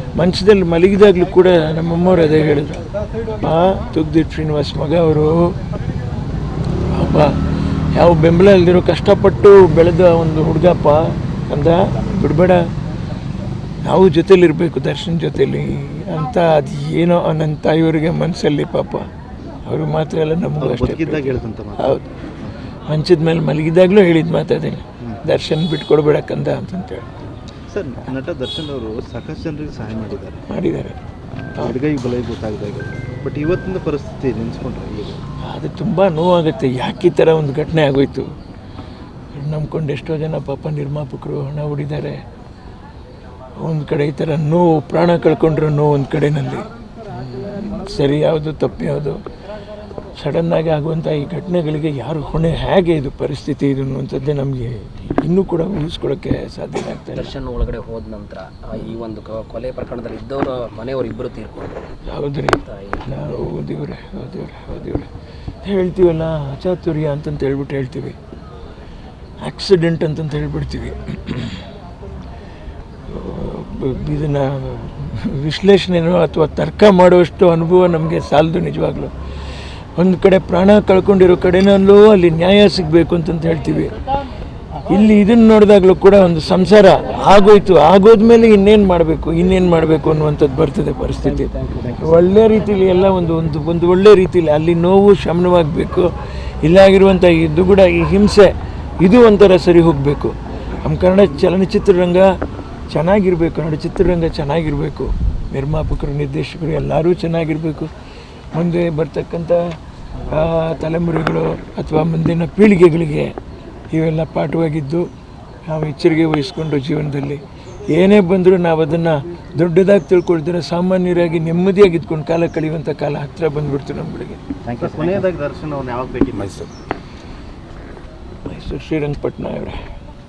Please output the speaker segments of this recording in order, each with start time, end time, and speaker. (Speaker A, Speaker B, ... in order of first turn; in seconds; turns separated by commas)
Speaker A: 0.2-5.6, Speaker A: 6.9-7.4, Speaker A: 7.9-12.7, Speaker A: 13.8-19.1, Speaker A: 19.6-22.1, Speaker B: 20.6-22.5, Speaker A: 22.9-27.1, Speaker B: 27.7-30.4, Speaker A: 30.5-31.0, Speaker B: 31.5-35.2, Speaker A: 35.4-38.3, Speaker A: 39.3-42.2, Speaker A: 43.5-46.7, Speaker A: 47.5-49.2, Speaker A: 50.1-57.3, Speaker C: 57.1-61.9, Speaker A: 62.0-65.1, Speaker C: 62.6-63.2, Speaker A: 65.6-68.2, Speaker A: 69.4-71.6, Speaker A: 73.1-79.1, Speaker A: 80.0-83.9, Speaker A: 84.8-102.3, Speaker C: 91.2-92.1, Speaker A: 102.9-107.9, Speaker A: 108.5-113.3, Speaker A: 113.9-115.1, Speaker A: 115.6-124.4, Speaker B: 124.7-126.7, Speaker A: 128.4-129.8